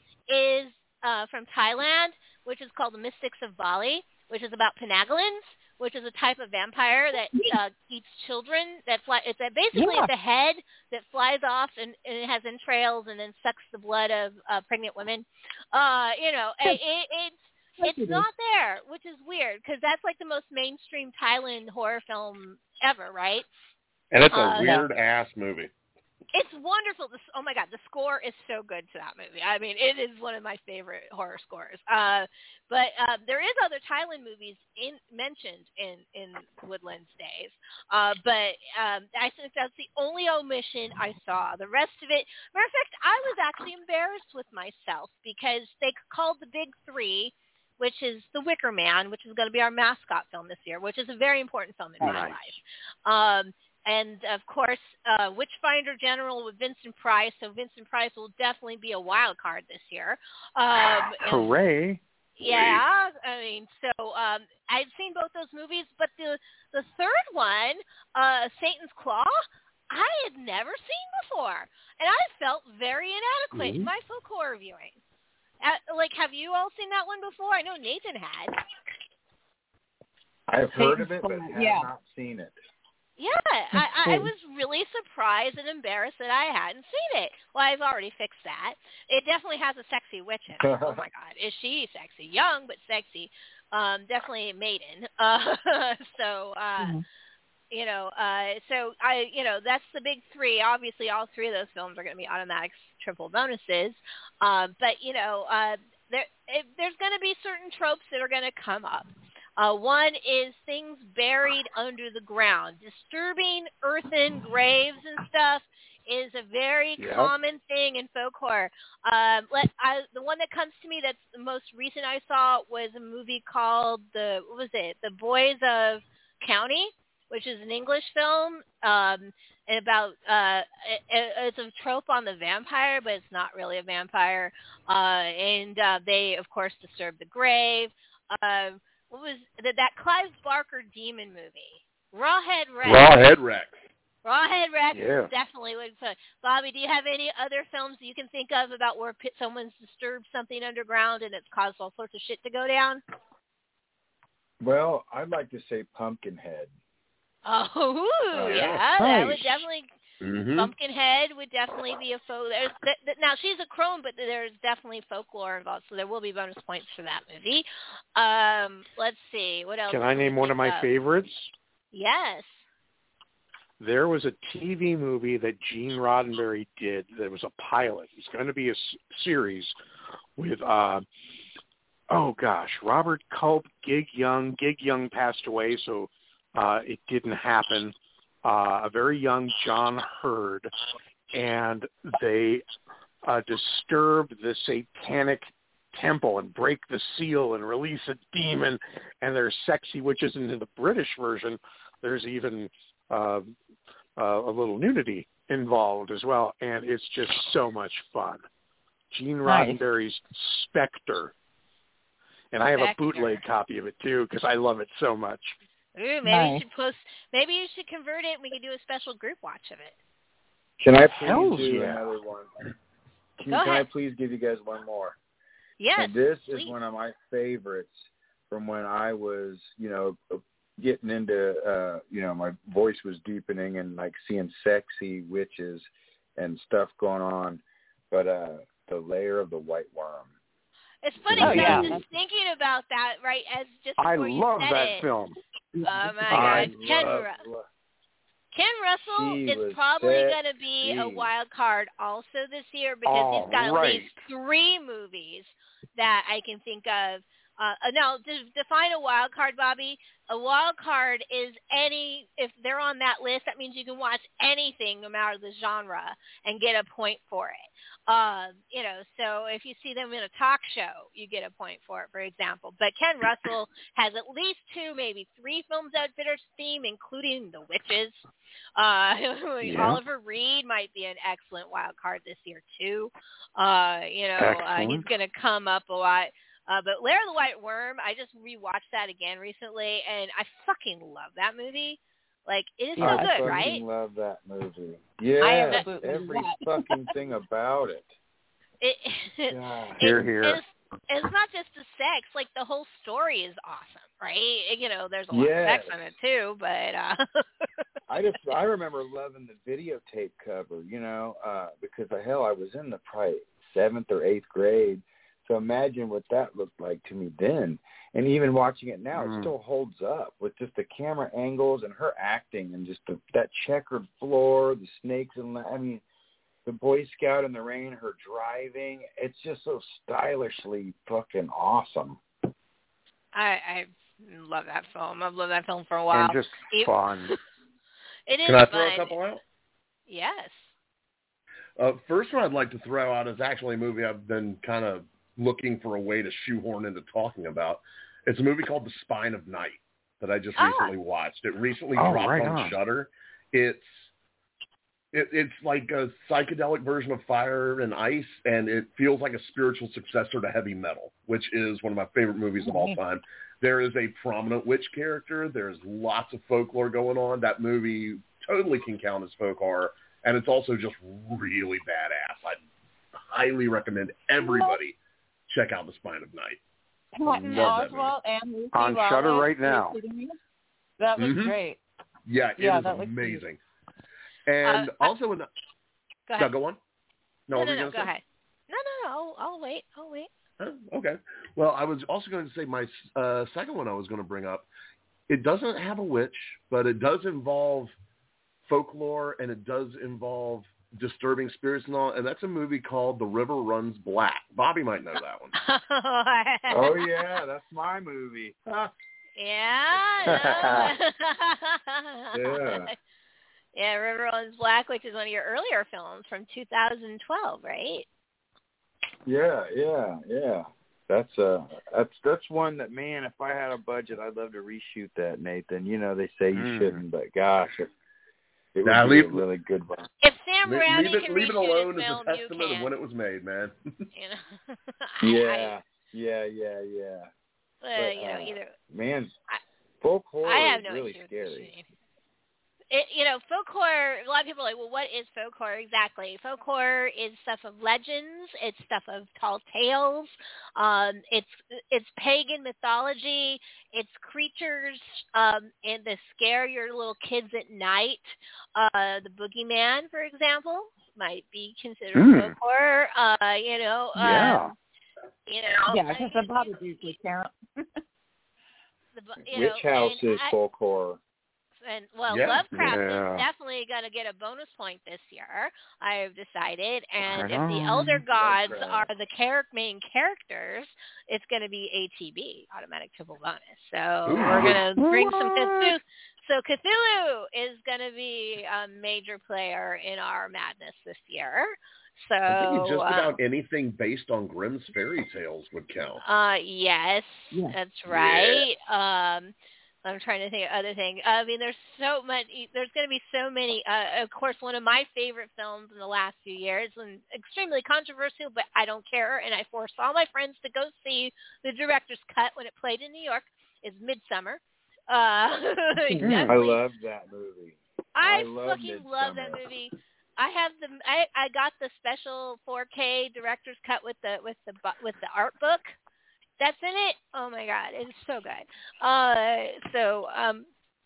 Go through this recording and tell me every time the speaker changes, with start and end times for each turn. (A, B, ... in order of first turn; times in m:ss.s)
0:00.3-0:23.5 A
0:09.7-0:10.1 B
0:17.8-0:18.2 B
0:24.1-0:25.7 C
0:24.3-0:24.7 A
0:24.6-0:24.9 B
0:26.3-1:01.5 A
0:52.0-0:52.3 B
0:52.0-0:52.4 D
1:01.2-1:02.0 D
1:02.4-1:15.0 A
1:15.6-1:18.6 A
1:20.5-1:22.5 E
1:20.8-1:21.9 B
1:23.2-1:37.0 A
1:24.0-1:24.3 B
1:30.6-1:31.0 E
1:36.8-1:37.0 B
1:37.7-2:23.1 A
1:57.0-1:57.4 D
2:22.8-2:23.8 C
2:22.9-2:23.2 D
2:24.2-2:33.0 A
2:24.9-2:25.3 D
2:34.6-2:36.7 E
2:37.4-2:39.9 A
2:38.4-2:38.9 C
2:39.0-2:39.6 D
2:40.2-2:40.7 C
2:40.6-2:50.9 A
2:49.9-2:51.5 D
2:51.9-2:52.6 A
2:53.8-2:59.8 D
3:00.4-3:01.0 D
3:02.1-3:10.7 D
3:11.3-3:12.6 D
3:13.3-3:23.5 D
3:24.2-3:28.4 D
3:29.1-3:31.3 D
3:29.4-3:29.8 B
3:32.5-3:35.6 D
3:32.7-3:33.4 A
3:36.0-3:40.0 A
3:36.2-3:36.6 B
3:40.8-3:42.5 E
3:41.2-3:42.0 D
3:43.4-3:45.2 E
3:43.5-3:43.9 A
3:45.8-3:46.7 A
3:46.0-4:00.3 E
4:01.0-4:05.1 A
4:01.2-4:02.0 E
4:01.4-4:01.9 D
4:01.4-4:02.0 B
4:04.0-4:05.4 D
4:05.8-4:06.4 B
4:05.8-4:07.4 A
4:06.3-4:06.8 D
4:06.3-4:07.7 E
4:08.5-4:38.2 A
4:09.2-4:11.3 E
4:13.0-4:14.2 D
4:38.8-4:53.8 A
4:39.6-4:40.0 D
4:44.4-4:45.1 D
4:53.0-4:53.6 B
4:53.0-4:58.2 E
4:55.4-4:57.1 B
4:58.8-5:07.4 A
4:59.5-5:00.2 E
5:00.0-5:00.6 D
5:05.3-5:05.9 E
5:08.1-5:26.0 E
5:19.2-5:19.5 D
5:26.6-5:32.2 E
5:33.3-5:37.4 A
5:36.1-5:37.3 D
5:38.3-5:39.2 A
5:38.4-5:39.4 C
5:40.1-5:40.7 A
5:41.8-5:54.1 C
5:50.6-5:50.9 A
5:52.0-5:52.8 D
5:55.1-6:12.6 C
6:02.6-6:03.0 B
6:13.3-6:15.0 C
6:14.4-6:14.8 B
6:15.5-6:16.6 C
6:17.2-6:20.4 B
6:17.4-6:18.1 C
6:18.7-6:20.0 D
6:21.0-6:21.8 B
6:21.2-6:21.6 C
6:22.3-6:23.6 C
6:22.6-6:23.4 B
6:24.5-6:25.5 C
6:24.6-6:25.2 A
6:26.4-6:26.8 C
6:27.5-6:28.1 C
6:27.5-6:30.3 A
6:30.6-6:34.7 C
6:35.3-6:37.9 C
6:38.7-6:45.5 C
6:45.6-6:47.1 A
6:46.7-6:48.6 E
6:49.4-6:52.9 A
6:50.3-6:50.9 D
6:52.3-6:52.9 E
6:53.8-6:58.1 A
6:59.2-7:07.9 E
7:06.6-7:07.0 D
7:08.8-7:10.1 E
7:08.8-7:09.4 C
7:10.2-7:12.9 A
7:10.6-7:13.8 C
7:14.1-7:15.8 A
7:15.2-7:17.3 E
7:17.8-7:18.7 A
7:18.0-7:19.3 E
7:20.0-7:21.7 E
7:20.4-7:21.9 A
7:22.9-7:44.7 A
7:42.2-7:42.6 D
7:44.2-7:44.7 D
7:45.5-7:47.2 A
7:45.9-7:48.0 B
7:49.2-7:50.6 A
7:49.5-7:51.2 E
7:51.8-8:13.3 A
7:52.3-7:53.0 C
7:52.8-7:53.5 D
7:57.2-7:58.2 D
7:58.3-7:59.1 E
8:04.3-8:04.8 C
8:04.4-8:06.0 D
8:12.5-8:16.2 C
8:16.2-8:36.8 A
8:17.5-8:17.8 B
8:18.1-8:18.6 C
8:36.0-8:36.5 B
8:36.2-8:36.6 D
8:36.5-8:39.6 E
8:38.2-8:46.0 A
8:46.6-8:50.7 A